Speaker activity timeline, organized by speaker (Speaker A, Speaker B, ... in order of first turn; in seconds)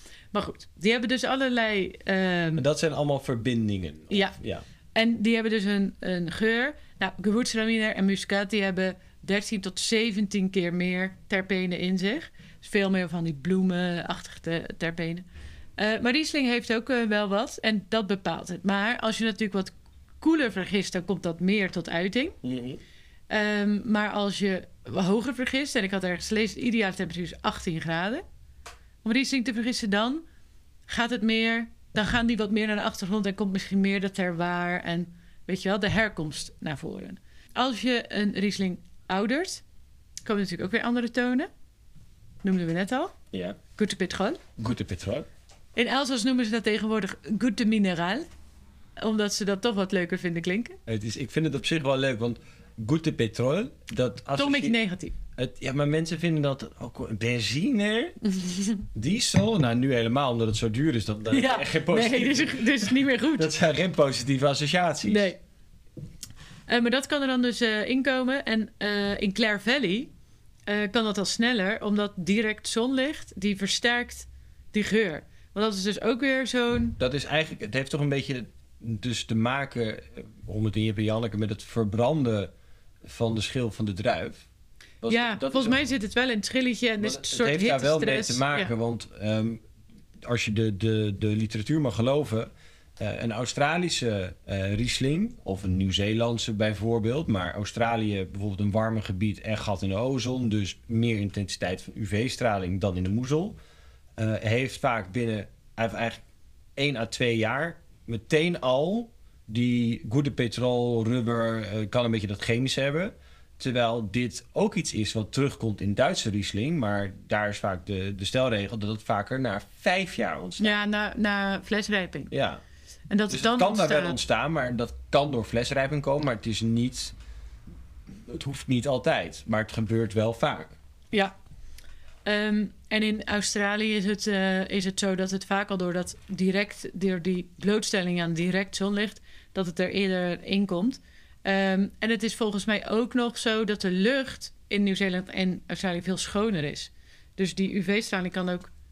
Speaker A: 0.3-2.6, 4.1-4.3, 4.9-15.2, 15.8-22.4, 23.3-28.2, 29.0-30.2, 30.9-39.6, 40.2-41.5, 42.4-43.1, 43.8-44.4, 45.7-48.2, 49.0-50.8, 54.4-55.1, 58.4-58.8, 61.3-63.5, 65.0-65.4, 66.7-70.1, 70.7-77.0, 85.1-88.7, 120.6-122.3, 123.1-124.2, 132.2-148.7
Speaker B: 2.5-4.6, 22.4-22.8, 43.3-43.6, 44.6-45.3, 50.9-54.8, 55.4-58.2, 58.8-65.3, 77.0-82.5, 83.0-84.5, 85.0-85.8, 87.0-89.6, 90.2-103.6, 104.2-106.2, 106.8-120.7, 122.3-122.6, 123.3-127.1, 128.3-130.8